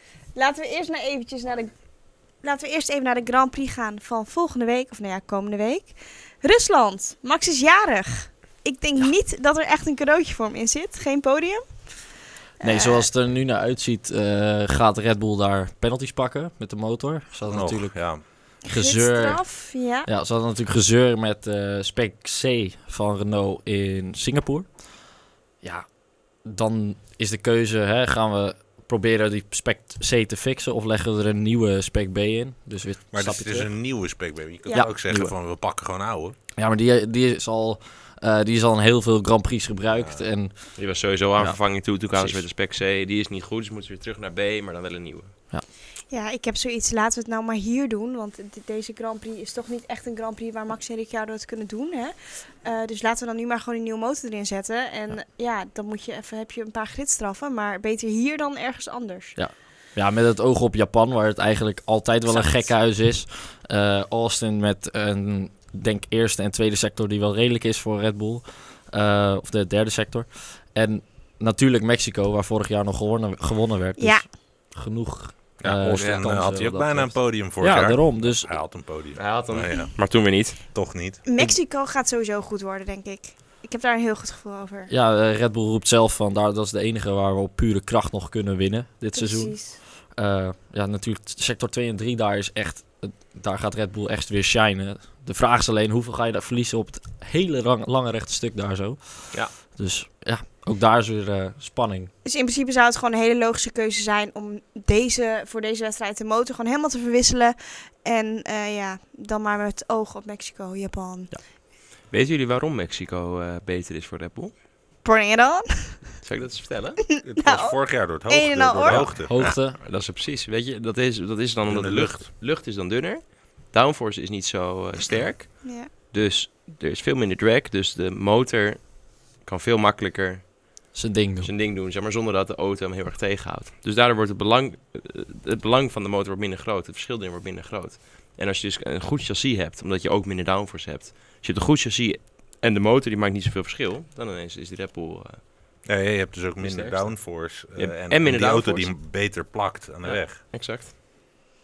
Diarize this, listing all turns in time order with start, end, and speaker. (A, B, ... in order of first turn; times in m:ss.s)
0:00.4-0:12.1 A
0:12.6-0:13.1 A
0:12.6-0:24.9 B
0:17.5-0:18.2 C
0:18.6-0:20.1 A
0:25.6-0:33.7 B
0:33.1-0:36.4 C
0:34.7-0:35.4 B
0:36.6-0:42.4 B
0:40.0-0:40.2 C
0:40.8-0:45.4 D
0:46.1-0:59.4 A
0:59.4-1:18.6 B
1:02.4-1:02.7 A
1:14.0-1:14.3 A
1:15.6-1:21.2 C
1:15.9-1:16.2 D
1:19.2-1:20.6 D
1:21.3-1:24.9 A
1:24.9-1:42.1 B
1:29.2-1:29.8 A
1:42.2-1:51.3 A
1:52.1-1:54.5 D
1:55.0-1:56.0 A
1:56.2-1:57.0 D
1:57.2-1:59.1 A
1:57.2-1:59.6 C
1:58.9-2:10.9 D
1:59.0-1:59.8 B
2:01.7-2:02.2 C
2:05.6-2:05.9 A
2:10.9-2:11.5 B
2:11.4-2:25.4 D
2:25.8-2:30.4 C
2:26.6-2:28.9 D
2:30.0-2:30.9 D